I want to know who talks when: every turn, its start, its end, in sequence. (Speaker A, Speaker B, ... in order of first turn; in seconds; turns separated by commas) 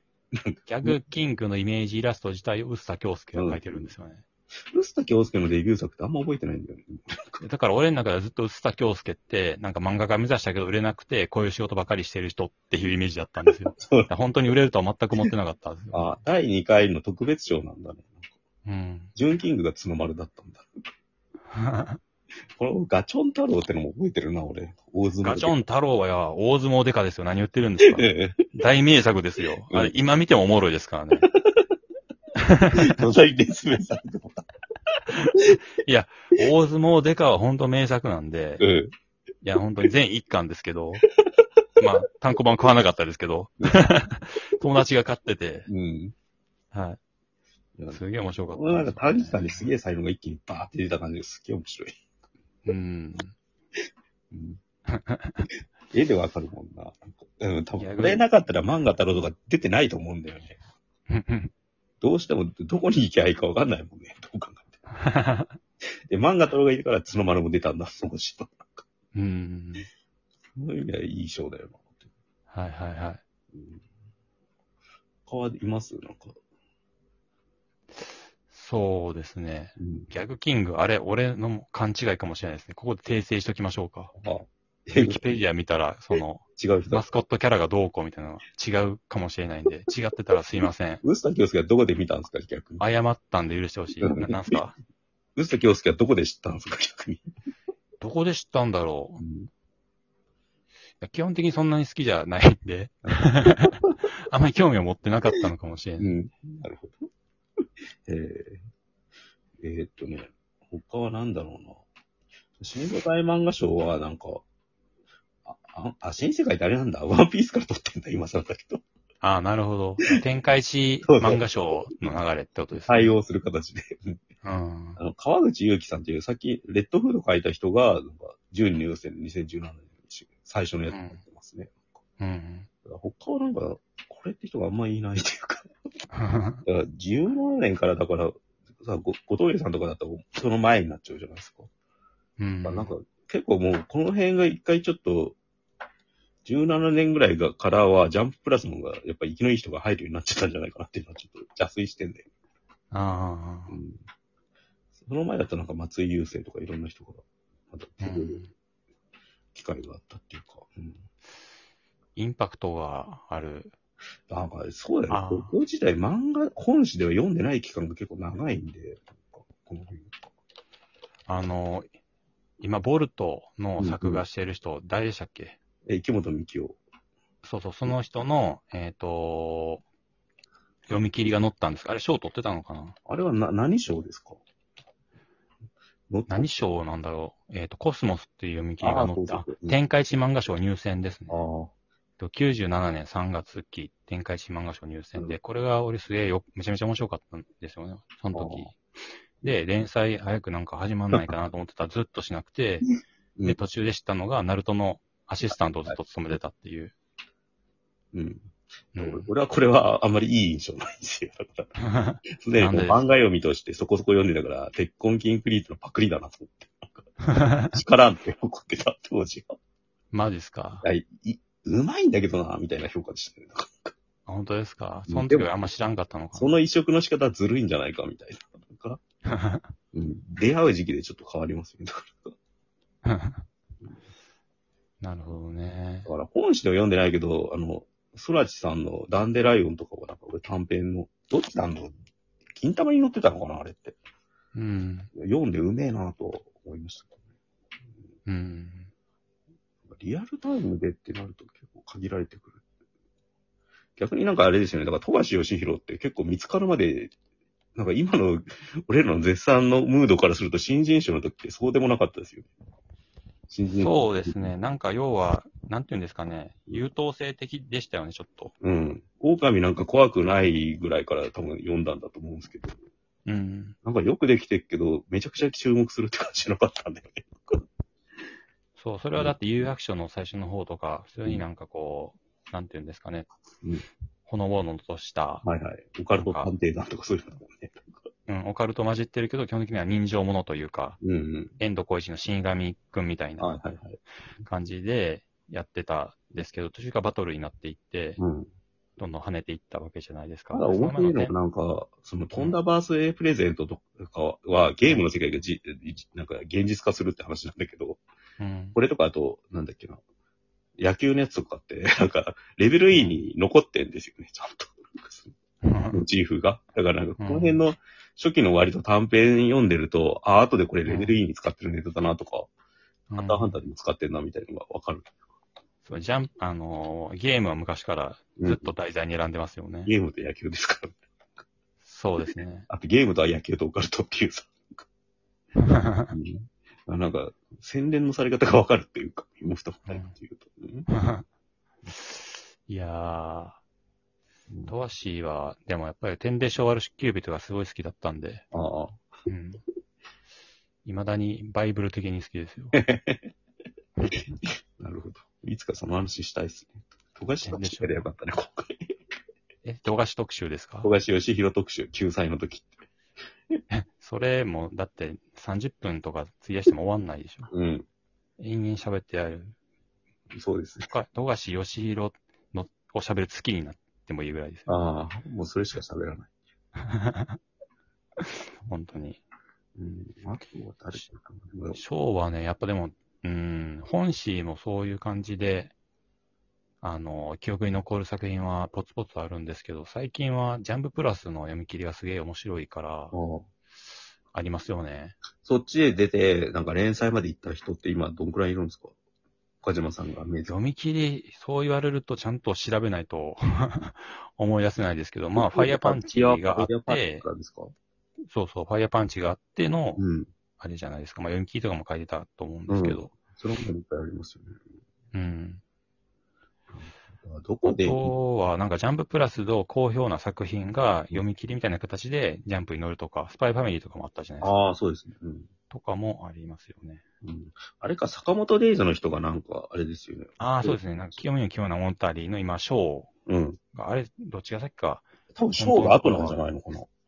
Speaker A: 0.4-1.0, Speaker B: 0.6-4.2, Speaker A: 3.3-3.8, Speaker A: 4.7-7.4, Speaker B: 7.4-16.1, Speaker A: 13.5-14.1, Speaker A: 15.9-18.3, Speaker B: 18.6-19.1, Speaker A: 19.1-20.6, Speaker B: 21.5-22.0, Speaker A: 22.6-25.6, Speaker B: 25.2-31.3, Speaker A: 27.9-28.4, Speaker A: 29.7-29.9, Speaker B: 32.4-32.7, Speaker A: 32.7-34.5, Speaker B: 35.8-38.6, Speaker A: 38.6-38.9, Speaker B: 39.4-41.0, Speaker B: 41.8-45.7, Speaker A: 45.7-46.1, Speaker B: 46.7-47.0, Speaker B: 47.9-49.7, Speaker A: 48.5-51.9, Speaker B: 52.6-53.3, Speaker A: 54.3-54.6, Speaker B: 54.9-55.5, Speaker A: 55.9-60.6, Speaker B: 57.8-58.2, Speaker B: 61.1-61.5, Speaker A: 62.0-64.8, Speaker B: 64.9-65.6, Speaker A: 66.1-68.8, Speaker B: 69.1-69.9, Speaker A: 70.5-72.0, Speaker B: 72.5-73.2, Speaker A: 73.5-73.8, Speaker A: 75.2-76.3, Speaker B: 78.0-84.1, Speaker A: 79.8-80.1, Speaker A: 84.1-85.4, Speaker B: 84.9-91.0, Speaker A: 86.6-87.0, Speaker A: 91.0-92.8, Speaker B: 92.8-94.8, Speaker A: 94.0-94.5, Speaker A: 95.3-97.2, Speaker B: 98.0-99.2, Speaker A: 99.2-99.5, Speaker B: 101.0-106.2, Speaker A: 103.1-103.7, Speaker A: 106.0-107.0, Speaker A: 108.0-108.6, Speaker A: 109.6-111.8, Speaker A: 112.6-114.4, Speaker A: 115.5-118.8, Speaker B: 119.2-123.2, Speaker A: 121.0-122.1, Speaker A: 122.8-124.2, Speaker B: 124.4-125.0, Speaker A: 125.0-131.9, Speaker B: 130.9-131.2, Speaker B: 132.2-132.7, Speaker A: 132.8-135.7, Speaker B: 136.1-136.6, Speaker A: 136.7-141.7, Speaker B: 142.4-142.9, Speaker A: 142.6-145.4, Speaker A: 146.4-152.3, Speaker B: 152.9-153.8, Speaker A: 153.7-154.0, Speaker A: 155.0-158.4, Speaker B: 158.0-158.5, Speaker A: 159.5-161.0, Speaker B: 162.2-163.7, Speaker A: 164.3-170.3, Speaker B: 165.1-165.5, Speaker B: 171.3-171.9, Speaker B: 172.6-175.6, Speaker A: 173.8-174.2, Speaker A: 175.8-176.8, Speaker B: 177.4-179.8, Speaker B: 180.9-182.9, Speaker A: 183.1-184.4, Speaker A: 186.1-186.5, Speaker B: 186.3-191.4, Speaker A: 188.8-189.8, Speaker A: 191.3-191.7, Speaker B: 192.2-198.7, Speaker A: 198.3-198.7, Speaker B: 199.4-202.8, Speaker B: 203.4-206.9, Speaker A: 208.1-211.7, Speaker B: 208.9-209.3, Speaker B: 211.8-213.2, Speaker A: 212.4-217.0, Speaker B: 217.2-217.7, Speaker A: 217.7-219.5, Speaker B: 220.1-220.8, Speaker A: 220.8-223.9, Speaker B: 224.2-226.5, Speaker A: 225.1-225.5, Speaker A: 226.3-229.0, Speaker B: 229.2-229.6, Speaker A: 229.9-232.3, Speaker B: 233.0-233.4, Speaker B: 235.0-236.1, Speaker A: 236.0-241.9, Speaker A: 242.5-244.0, Speaker B: 244.5-245.1, Speaker A: 245.1-247.2, Speaker B: 248.2-248.9, Speaker A: 249.8-252.6, Speaker A: 254.0-257.1, Speaker A: 257.8-262.5, Speaker A: 263.5-264.4, Speaker B: 263.7-268.5, Speaker A: 268.6-272.8, Speaker B: 273.2-273.8, Speaker A: 273.8-277.6, Speaker B: 278.8-283.3, Speaker B: 284.2-285.4, Speaker A: 285.4-288.0, Speaker B: 286.2-286.5, Speaker B: 288.3-291.0, Speaker A: 291.0-291.6, Speaker B: 291.6-293.5, Speaker A: 293.4-294.0, Speaker B: 294.4-298.2, Speaker A: 298.2-298.5, Speaker B: 299.0-301.3, Speaker A: 300.5-308.0, Speaker B: 308.4-308.8, Speaker A: 308.7-310.0, Speaker A: 310.8-315.3, Speaker B: 312.9-313.2, Speaker B: 315.6-316.0, Speaker A: 315.9-322.5, Speaker B: 317.2-317.6, Speaker B: 320.9-321.2, Speaker B: 323.1-323.6, Speaker A: 323.2-325.2, Speaker B: 325.8-329.9, Speaker A: 328.4-328.7, Speaker A: 329.9-331.0, Speaker B: 331.8-332.7, Speaker A: 332.7-334.8, Speaker B: 335.6-336.1, Speaker A: 336.1-340.9, Speaker B: 339.9-340.1, Speaker B: 340.9-341.2, Speaker B: 341.9-343.6, Speaker B: 344.7-348.4, Speaker A: 348.5-349.0, Speaker B: 349.3-349.6, Speaker B: 350.8-352.8, Speaker A: 352.7-353.3, Speaker B: 354.0-354.3, Speaker A: 354.2-358.9, Speaker B: 357.4-358.1, Speaker B: 359.6-360.9, Speaker A: 360.8-362.7, Speaker B: 363.7-367.5, Speaker A: 367.5-367.9, Speaker B: 368.4-369.6, Speaker A: 370.3-370.9, Speaker B: 370.8-374.7, Speaker A: 374.7-376.3, Speaker B: 376.8-377.4, Speaker B: 378.2-379.2, Speaker A: 379.8-381.8, Speaker B: 381.7-385.7, Speaker B: 386.8-393.1, Speaker A: 393.1-393.5, Speaker B: 394.3-395.2, Speaker A: 395.4-398.9, Speaker A: 399.6-400.6, Speaker B: 400.4-407.2, Speaker A: 405.4-407.7, Speaker B: 408.3-410.0, Speaker A: 410.0-410.3, Speaker B: 410.6-413.1, Speaker A: 412.7-414.6, Speaker B: 415.1-415.6, Speaker A: 416.7-418.1, Speaker B: 417.6-424.6, Speaker A: 424.4-425.5, Speaker B: 425.7-427.0, Speaker A: 427.2-431.2, Speaker B: 430.4-433.1, Speaker A: 433.3-433.6, Speaker B: 433.7-435.1, Speaker A: 435.4-436.9, Speaker B: 435.6-436.4